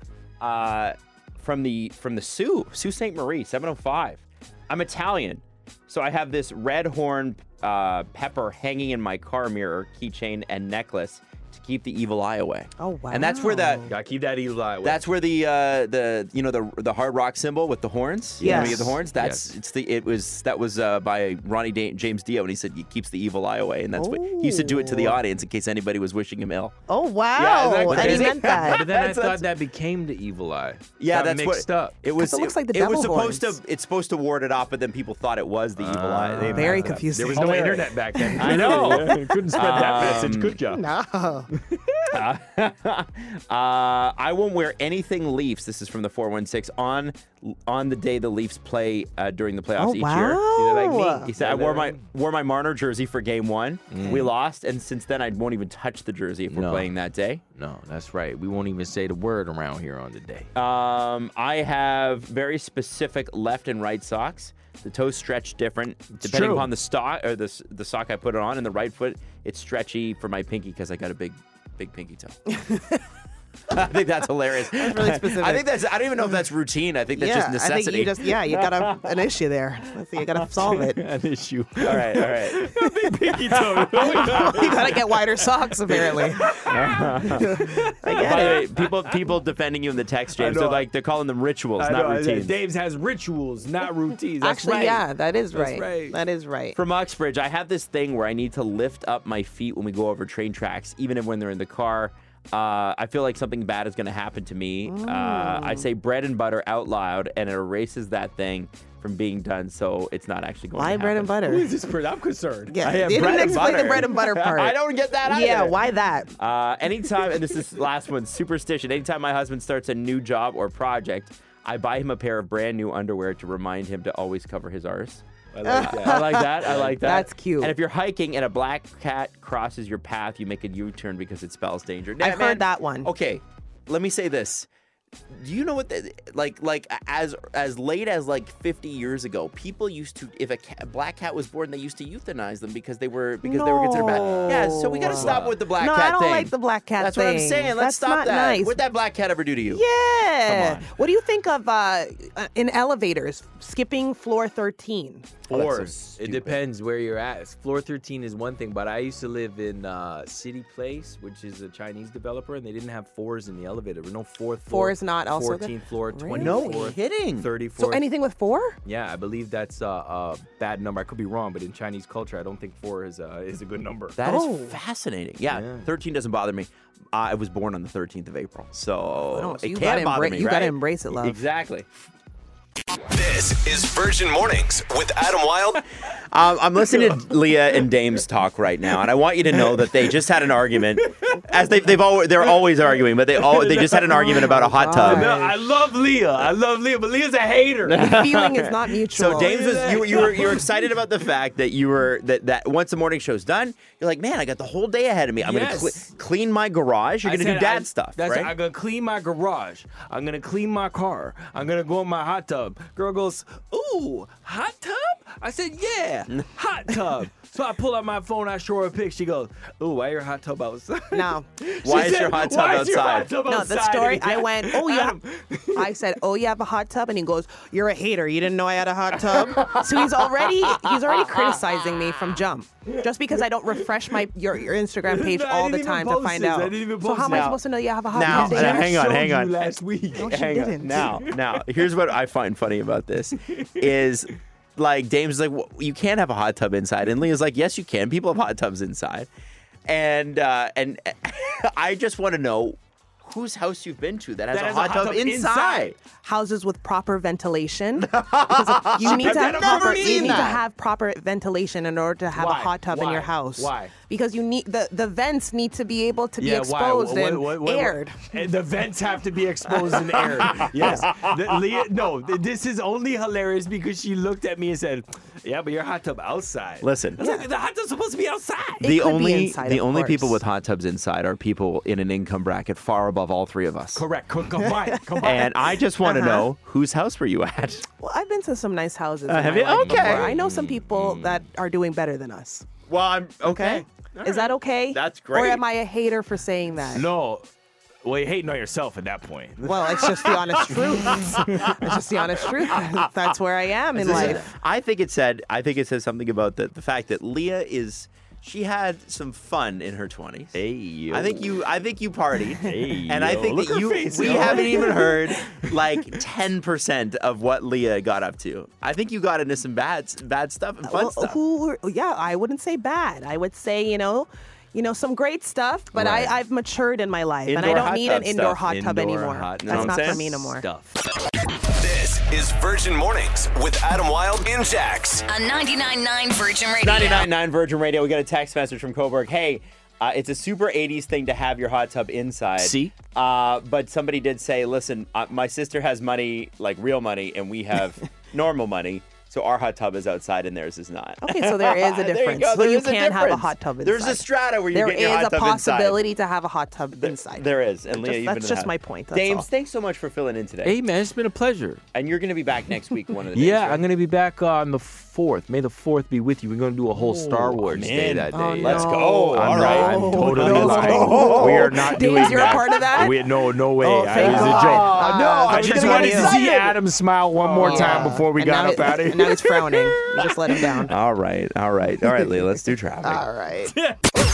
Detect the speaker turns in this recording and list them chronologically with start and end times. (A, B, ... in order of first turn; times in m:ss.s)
0:00.4-0:13.9 A
0:12.8-0:13.9 B
0:13.9-0:15.0 C
0:14.8-0:26.8 A
0:18.4-0:19.5 C
0:18.4-0:18.8 B
0:24.0-0:25.2 B
0:26.9-0:28.8 B
0:27.4-0:29.5 A
0:27.6-0:32.0 C
0:31.0-0:40.6 A
0:32.2-0:33.6 B
0:35.8-0:40.8 C
0:36.5-0:40.2 B
0:40.7-0:41.5 B
0:41.6-0:42.1 C
0:42.1-0:50.5 A
0:49.8-0:51.3 B
0:50.5-0:52.1 C
0:51.4-0:57.4 A
0:53.9-0:54.3 C
0:56.5-0:56.9 C
0:57.6-1:00.5 C
1:00.6-1:12.5 A
1:06.2-1:06.7 C
1:12.5-1:13.0 B
1:13.7-1:19.2 A
1:14.7-1:15.7 B
1:17.2-1:21.0 B
1:20.6-1:25.2 C
1:21.8-1:22.8 A
1:23.5-1:24.6 A
1:24.0-1:26.6 B
1:25.9-1:29.2 C
1:26.6-1:27.6 A
1:27.3-1:28.7 B
1:28.2-1:32.5 A
1:30.4-1:30.9 C
1:31.8-1:36.2 C
1:34.4-1:36.8 B
1:36.8-1:51.4 A
1:44.9-1:45.9 B
1:50.8-1:51.7 B
1:51.4-1:53.9 C
1:52.7-1:56.3 B
1:52.8-2:14.7 A
2:05.5-2:07.0 C
2:05.6-2:07.7 B
2:12.2-2:13.1 B
2:15.3-2:29.8 A
2:23.4-2:28.8 B
2:24.2-2:25.6 C
2:29.7-2:35.3 B
2:30.5-2:30.9 A
2:35.5-2:36.6 A
2:35.5-2:48.0 C
2:44.7-2:46.9 B
2:46.3-2:47.5 A
2:47.8-2:48.8 B
2:48.8-2:54.2 C
2:54.2-3:01.9 A
2:54.2-2:54.8 B
2:55.5-2:55.9 C
2:59.3-3:01.4 B
3:03.1-3:05.8 D
3:06.2-3:15.3 A
3:09.6-3:10.2 C
3:11.0-3:11.4 C
3:13.3-3:18.1 C
3:14.1-3:15.5 B
3:17.9-3:28.6 A
3:17.9-3:19.6 B
3:19.3-3:20.8 C
3:25.4-3:26.1 C
3:27.2-3:46.0 C
3:41.1-3:41.5 B
3:41.8-3:43.3 A
3:43.4-3:59.0 B
3:49.1-3:51.6 A
3:52.9-3:53.9 C
3:55.1-3:57.6 C
3:57.3-3:57.6 A
3:58.1-3:59.5 A
3:58.1-4:00.5 C
4:00.2-4:01.2 B
4:00.2-4:09.3 A
4:01.1-4:01.7 C
4:03.5-4:03.9 C
4:09.9-4:16.0 A
4:14.5-4:15.9 C
4:16.2-4:28.4 B
4:18.0-4:20.6 A
4:19.0-4:20.6 C
4:22.3-4:23.9 C
4:26.4-4:38.8 C
4:29.9-4:31.4 A
4:30.7-4:31.1 B
4:36.8-4:37.2 A
4:38.8-4:40.4 B
4:38.8-4:44.0 A
4:44.0-4:45.5 C
4:44.9-4:45.4 B
4:45.2-4:47.9 A
4:46.0-4:46.5 B
4:48.0-4:52.7 B
4:49.3-4:50.3 A
4:49.8-4:51.4 C
4:52.9-4:53.9 A
4:53.4-4:57.1 B
4:54.9-4:55.6 A
4:56.9-4:57.5 C
4:58.0-5:00.1 C
4:59.6-5:04.4 B
5:00.3-5:03.0 A
5:04.0-5:21.4 A
5:04.0-5:04.5 C
5:10.6-5:11.6 C
5:12.6-5:16.2 C
5:20.8-5:30.6 B
5:25.9-5:26.3 A
5:27.5-5:28.6 A
5:27.6-5:31.0 C
5:29.6-5:30.2 A
5:31.6-5:35.3 D
5:35.3-5:37.3 E
5:36.8-5:56.0 A
5:42.6-5:43.0 C
5:51.2-5:59.5 B
5:57.0-6:00.8 A
6:00.6-6:01.8 C
6:01.9-6:03.8 A
6:03.3-6:20.8 C
6:06.9-6:12.8 A
6:08.3-6:13.2 B
6:13.8-6:16.5 B
6:14.2-6:16.8 A
6:17.4-6:18.2 A
6:17.6-6:20.9 B
6:20.8-6:23.3 A
6:23.0-6:23.8 B